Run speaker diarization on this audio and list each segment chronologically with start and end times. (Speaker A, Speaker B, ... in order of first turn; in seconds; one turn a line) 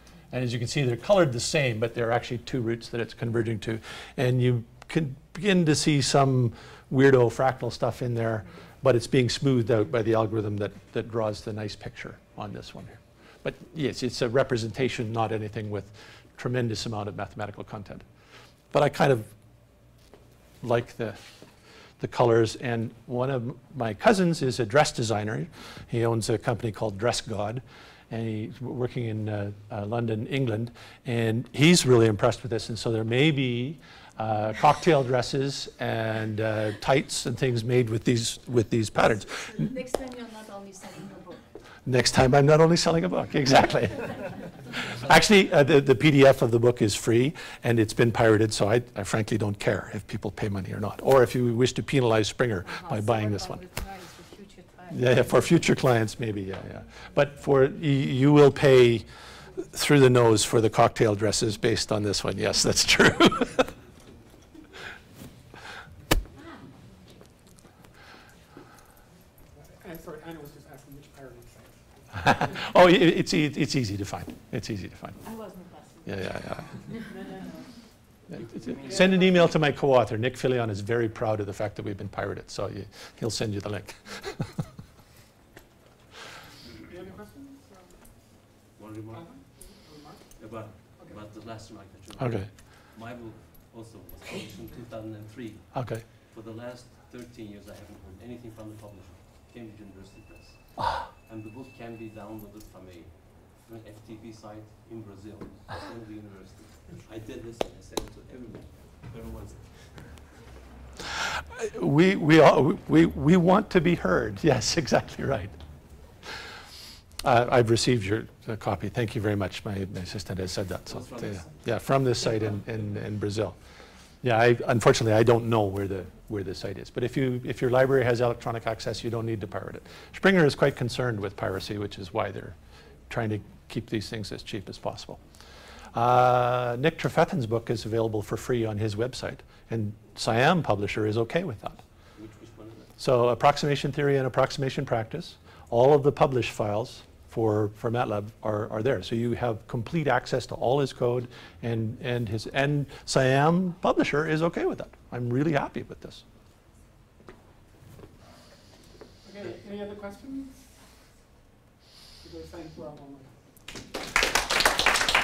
Speaker A: 0.3-18.0
Speaker A: 18.7-19.3
Speaker A: 20.6-21.2
Speaker A: 22.0-39.7
Speaker B: 39.5-41.4
Speaker A: 41.9-44.2
Speaker A: 44.8-53.6
Speaker B: 52.6-55.4
Speaker A: 54.9-59.1
Speaker A: 59.7-63.7
Speaker C: 69.5-72.5
Speaker A: 72.1-75.2
Speaker B: 75.2-76.4
Speaker A: 76.0-76.8
Speaker C: 77.1-77.5
Speaker A: 78.3-84.5
Speaker D: 78.4-79.1
Speaker C: 78.8-79.1
Speaker C: 86.8-88.1
Speaker D: 88.8-89.3
Speaker C: 89.1-91.2
Speaker D: 90.3-110.2
Speaker A: 92.2-92.5
Speaker A: 95.7-96.0
Speaker A: 100.8-101.0
Speaker A: 111.6-115.5
Speaker A: 117.2-123.5
Speaker D: 120.9-121.8
Speaker A: 124.2-132.6
Speaker A: 133.1-135.2
Speaker A: 135.9-141.8
Speaker D: 142.2-142.9
Speaker A: 143.0-156.2
Speaker C: 159.2-160.7
Speaker C: 162.2-163.3